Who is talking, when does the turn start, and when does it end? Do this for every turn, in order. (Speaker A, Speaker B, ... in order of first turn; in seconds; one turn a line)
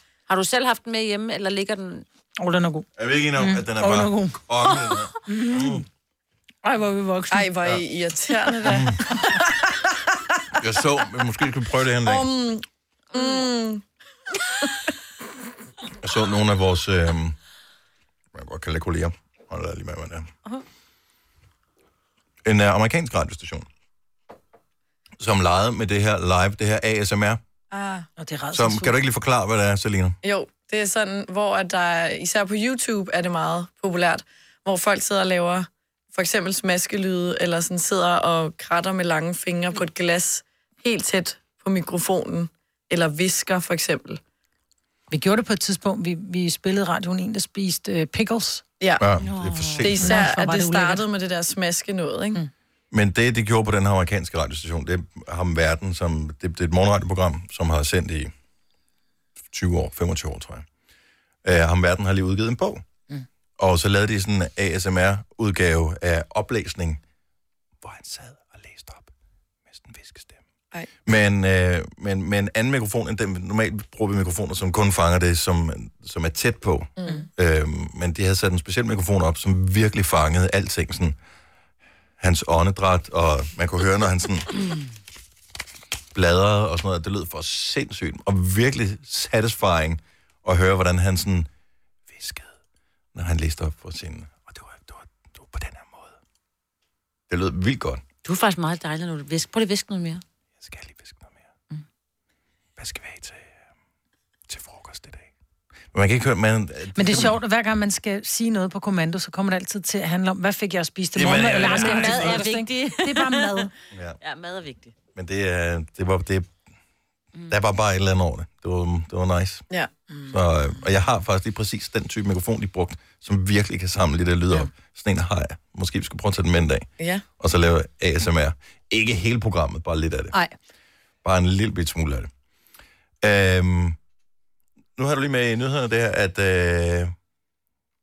Speaker A: 0.3-2.0
Speaker B: 2.4-4.4
Speaker C: 3.0-5.8
Speaker B: 5.3-5.8
Speaker B: 6.6-7.5
Speaker D: 7.3-9.7
Speaker B: 8.5-9.4
Speaker C: 8.7-9.0
Speaker C: 10.6-12.3
Speaker D: 12.1-13.8
Speaker C: 16.0-17.4
Speaker C: 18.4-20.3
Speaker C: 22.4-23.7
Speaker C: 25.2-27.4
Speaker D: 27.7-28.1
Speaker B: 28.2-28.9
Speaker C: 28.5-30.2
Speaker D: 30.2-44.2
Speaker B: 45.1-48.6
Speaker C: 49.0-50.1
Speaker A: 49.3-49.8
Speaker B: 49.8-51.0
Speaker D: 49.8-52.4
Speaker C: 52.9-58.3
Speaker C: 59.5-60.7
Speaker C: 61.5-62.8
Speaker C: 63.6-67.0
Speaker C: 67.8-69.1
Speaker C: 69.7-70.4
Speaker C: 71.1-81.2
Speaker D: 77.0-77.3
Speaker C: 82.2-84.7
Speaker C: 86.1-91.5
Speaker C: 92.1-92.5
Speaker C: 93.2-96.1
Speaker C: 97.3-98.0
Speaker A: 98.2-100.2
Speaker C: 100.6-101.3
Speaker C: 102.8-103.5
Speaker C: 104.5-105.3
Speaker C: 105.9-107.4
Speaker B: 107.0-113.7
Speaker C: 111.2-112.5
Speaker A: 111.6-113.7
Speaker A: 114.2-114.9
Speaker C: 115.2-116.5
Speaker C: 117.5-119.7
Speaker B: 120.1-120.4
Speaker C: 120.3-130.3
Speaker D: 127.0-127.2
Speaker C: 131.2-132.3
Speaker C: 133.2-134.0
Speaker C: 135.0-137.1